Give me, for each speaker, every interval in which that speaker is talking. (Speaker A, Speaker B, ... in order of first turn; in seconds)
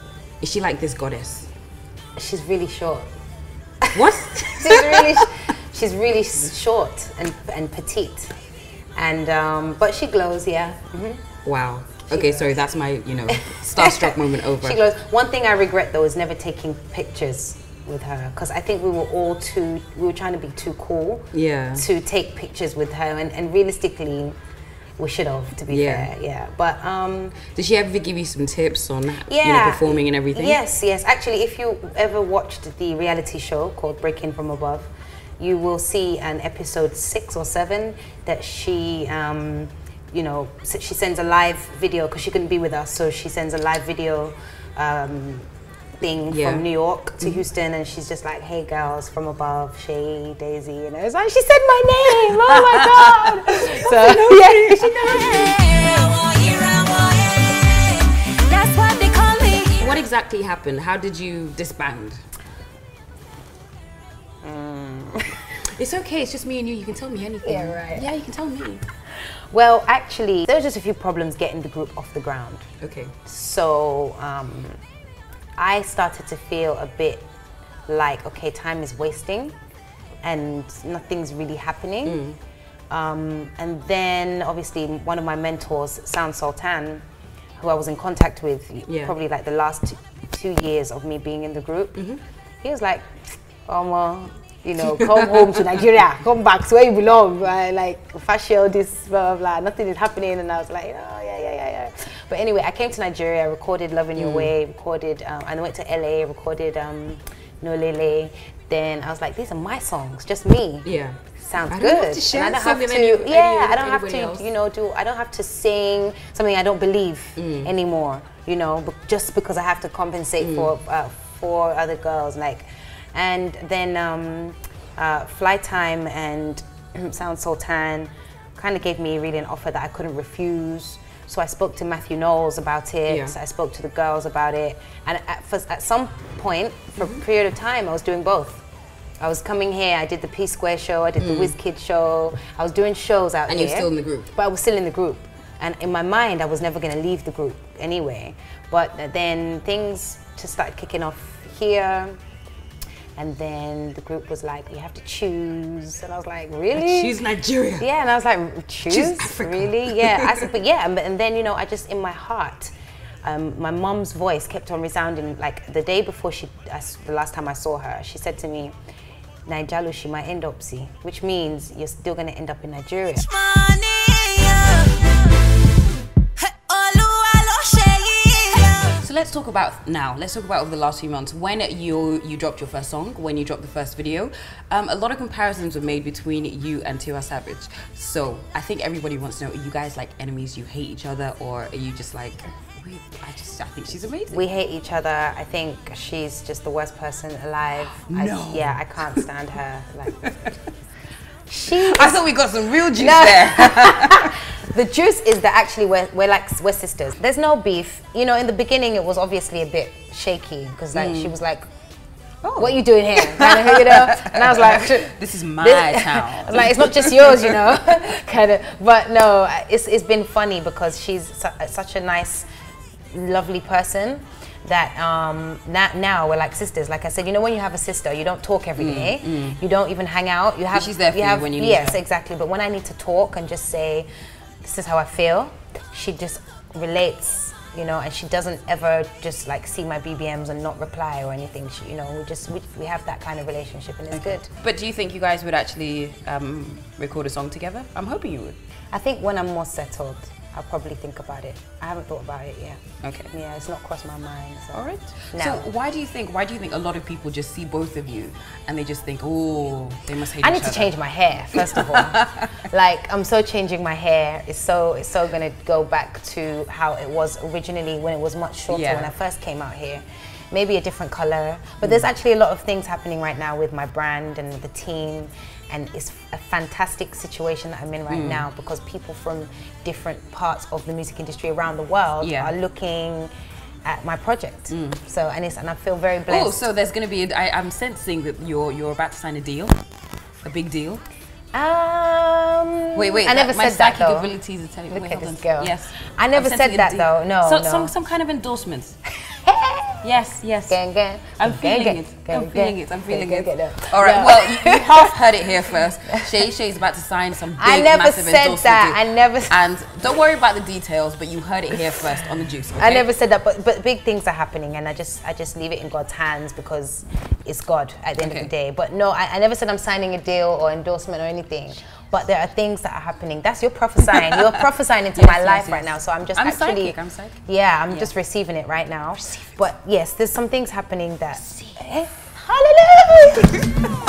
Speaker A: 0.4-1.5, 3.9-5.3, 11.4-14.8, 21.3-21.9, 25.7-26.1, 27.5-30.6, 46.3-46.6, 52.2-55.4, 59.8-62.2, 65.6-68.8, 72.8-73.2, 82.0-82.4, 88.9-89.1, 92.0-92.2, 94.8-95.7, 104.1-104.5, 110.8-114.5, 117.3-117.7, 120.4-120.7, 133.1-133.3, 141.2-141.5, 143.5-144.3, 156.7-157.9, 158.9-160.5, 178.9-194.4, 198.0-199.2, 200.2-200.5, 201.7-204.4, 210.9-211.3, 212.4-217.8, 228.8-229.6, 230.7-232.0, 244.1-248.6, 253.0-253.3, 254.7-260.9, 261.5-262.5, 268.7-269.1, 278.1-278.5, 282.2-282.5, 284.7-285.0, 286.3-289.8, 290.4-291.0, 292.9-299.0, 300.0-300.8, 301.4-313.1, 318.2-318.5, 325.1-328.1, 329.1-329.6
Speaker B: 2.1-3.1, 4.4-8.3, 8.9-11.2, 12.1-12.6, 13.4-24.4, 25.0-27.4, 29.2-45.5, 46.0-55.5, 64.4-65.6, 67.4-68.1, 69.3-72.7, 73.2-74.8, 75.6-77.2, 77.9-79.5, 80.2-82.2, 82.9-87.0, 87.6-92.0, 92.6-138.6, 139.2-152.2, 153.2-157.1, 157.8-168.7, 169.4-173.4, 194.3-200.3, 201.5-202.2, 202.9-211.6, 212.5-222.5, 223.1-234.1, 234.6-244.5, 248.9-255.7, 260.4-283.3, 283.8-286.6, 291.5-294.3, 294.9-297.9, 299.2-300.0, 300.7-305.1, 307.6-309.6, 312.8-333.7
Speaker C: 55.3-59.9, 173.3-175.4, 176.4-179.0